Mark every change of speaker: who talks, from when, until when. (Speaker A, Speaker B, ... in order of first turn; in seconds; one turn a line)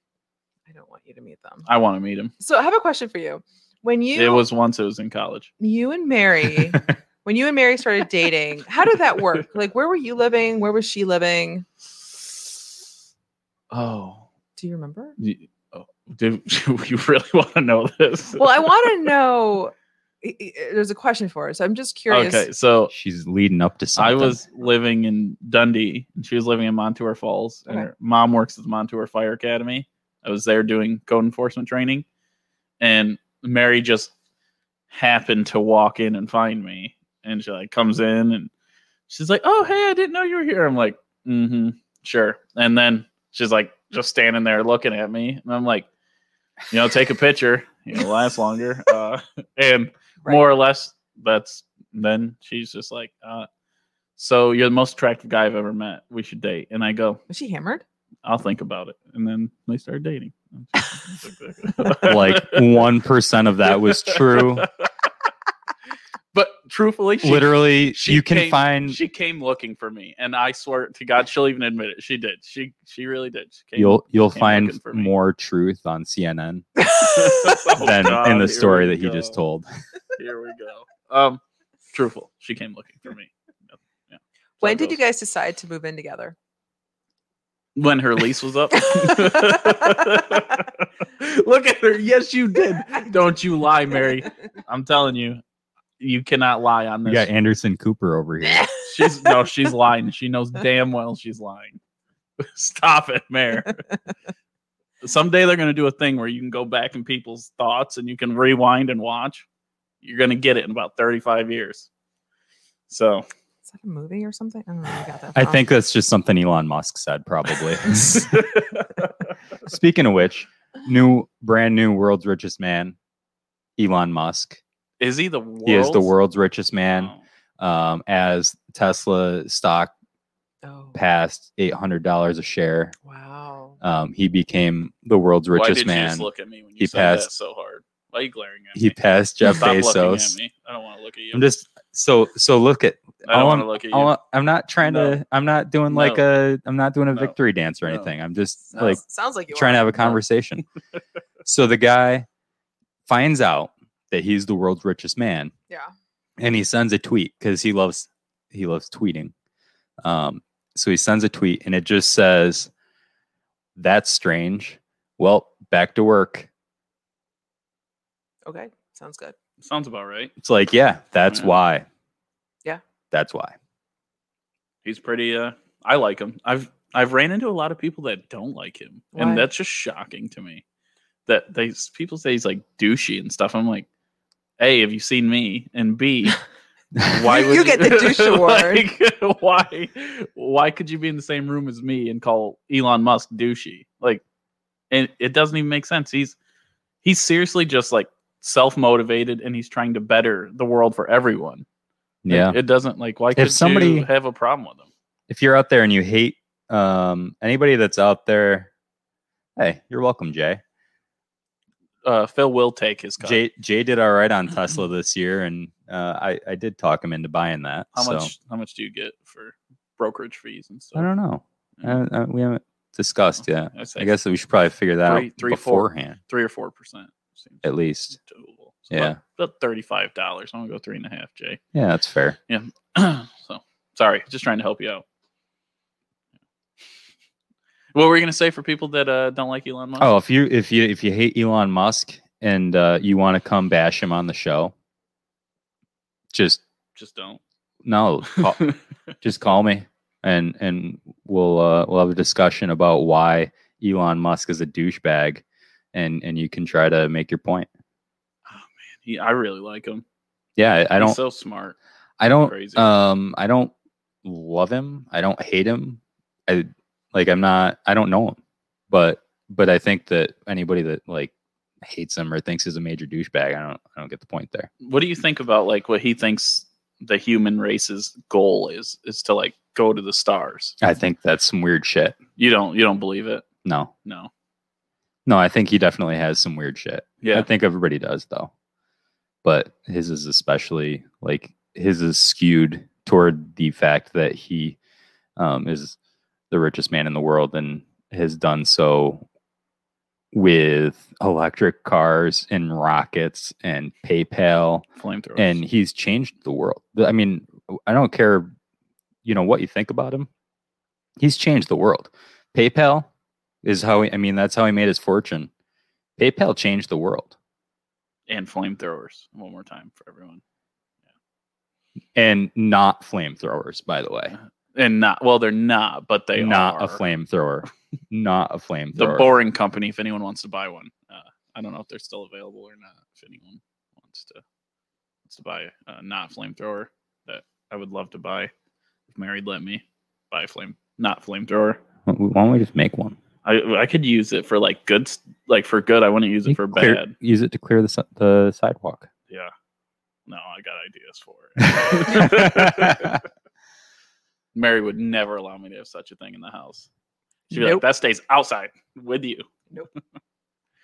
Speaker A: 0.7-1.7
Speaker B: 1.7-2.3
Speaker A: 2.4-4.4
Speaker B: 4.1-5.5
Speaker A: 5.6-11.7
Speaker B: 12.1-12.6
Speaker B: 13.7-14.3
Speaker A: 14.6-15.2
Speaker B: 15.2-19.1
Speaker A: 18.4-22.5
Speaker B: 22.1-22.9
Speaker C: 22.9-24.4
Speaker B: 24.0-32.0
Speaker B: 32.8-34.1
Speaker B: 34.9-38.5
Speaker B: 39.1-45.9
Speaker B: 46.7-53.5
Speaker B: 54.2-57.2
Speaker A: 57.3-57.8
Speaker B: 58.2-62.7
Speaker C: 62.0-64.7
Speaker B: 63.8-64.9
Speaker B: 66.3-75.1
Speaker C: 67.2-69.0
Speaker C: 73.8-76.7
Speaker A: 76.8-77.5
Speaker B: 77.0-79.4
Speaker C: 77.7-79.7
Speaker B: 80.2-81.4
Speaker B: 81.9-83.3
Speaker B: 84.1-85.0
Speaker A: 84.6-86.3
Speaker B: 87.8-95.4
Speaker A: 88.8-90.1
Speaker B: 96.0-97.3
Speaker C: 97.1-98.7
Speaker B: 98.9-101.8
Speaker B: 102.4-103.8
Speaker B: 105.0-109.5
Speaker B: 110.0-111.9
Speaker B: 112.9-113.3
Speaker A: 113.7-115.6
Speaker C: 115.3-118.3
Speaker B: 118.0-119.1
Speaker C: 119.6-123.0
Speaker C: 123.8-124.6
Speaker B: 125.0-126.1
Speaker C: 125.7-129.9
Speaker B: 126.9-127.2
Speaker A: 130.6-131.0
Speaker C: 130.9-132.9
Speaker A: 133.1-133.8
Speaker C: 133.8-137.3
Speaker B: 135.6-141.5
Speaker C: 138.8-140.4
Speaker C: 141.3-149.0
Speaker B: 143.2-144.2
Speaker B: 144.8-145.2
Speaker B: 145.9-146.2
Speaker B: 147.1-148.1
Speaker A: 148.7-150.2
Speaker C: 149.5-150.7
Speaker C: 151.4-152.3
Speaker C: 153.1-155.5
Speaker C: 156.4-159.3
Speaker C: 160.0-162.7
Speaker C: 163.8-166.5
Speaker A: 168.5-169.3
Speaker B: 169.6-170.3
Speaker C: 170.4-171.9
Speaker B: 171.3-171.6
Speaker C: 173.1-173.6
Speaker B: 174.8-180.6
Speaker A: 179.2-179.5
Speaker B: 181.3-183.9
Speaker B: 184.6-186.4
Speaker B: 187.0-194.2
Speaker A: 187.2-188.8
Speaker B: 194.9-196.4
Speaker B: 197.0-201.7
Speaker C: 202.2-202.6
Speaker B: 202.3-204.9
Speaker C: 203.4-204.1
Speaker C: 205.3-208.7
Speaker C: 209.6-210.6
Speaker B: 212.1-213.4
Speaker C: 213.2-218.3
Speaker B: 217.9-221.1
Speaker C: 221.0-226.2
Speaker B: 223.7-224.1
Speaker B: 225.0-231.6
Speaker C: 227.6-228.2
Speaker C: 228.9-229.2
Speaker C: 231.7-232.4
Speaker B: 232.5-235.0
Speaker B: 237.9-240.1
Speaker C: 240.0-244.7
Speaker C: 246.3-246.6
Speaker B: 247.0-247.4
Speaker C: 247.8-248.7
Speaker B: 248.3-248.8
Speaker C: 249.2-255.4
Speaker C: 255.9-257.7
Speaker B: 258.5-260.0
Speaker C: 260.6-261.2
Speaker B: 261.0-261.8
Speaker C: 262.2-263.7
Speaker B: 262.4-262.9
Speaker C: 264.2-268.4
Speaker C: 268.9-274.7
Speaker B: 274.8-280.8
Speaker C: 280.8-282.2
Speaker B: 282.4-283.4
Speaker C: 283.6-283.9
Speaker B: 284.1-284.3
Speaker C: 285.3-288.5
Speaker B: 287.2-287.5
Speaker C: 289.4-294.8
Speaker C: 295.4-296.0
Speaker C: 296.5-299.2
Speaker C: 300.3-304.9
Speaker B: 305.0-305.6
Speaker C: 305.4-308.5
Speaker C: 309.2-310.3
Speaker C: 311.2-313.1
Speaker C: 313.6-315.5
Speaker C: 316.2-317.3
Speaker B: 318.3-320.4
Speaker C: 322.1-324.4
Speaker B: 324.8-327.0
Speaker C: 326.4-329.3
Speaker B: 329.0-334.4
Speaker B: 335.3-338.5
Speaker B: 339.1-341.8
Speaker C: 342.1-343.2
Speaker B: 343.4-347.1
Speaker C: 346.5-349.1
Speaker B: 350.3-353.2
Speaker C: 351.7-353.2
Speaker B: 354.6-356.9
Speaker B: 357.5-359.5
Speaker A: 357.6-357.8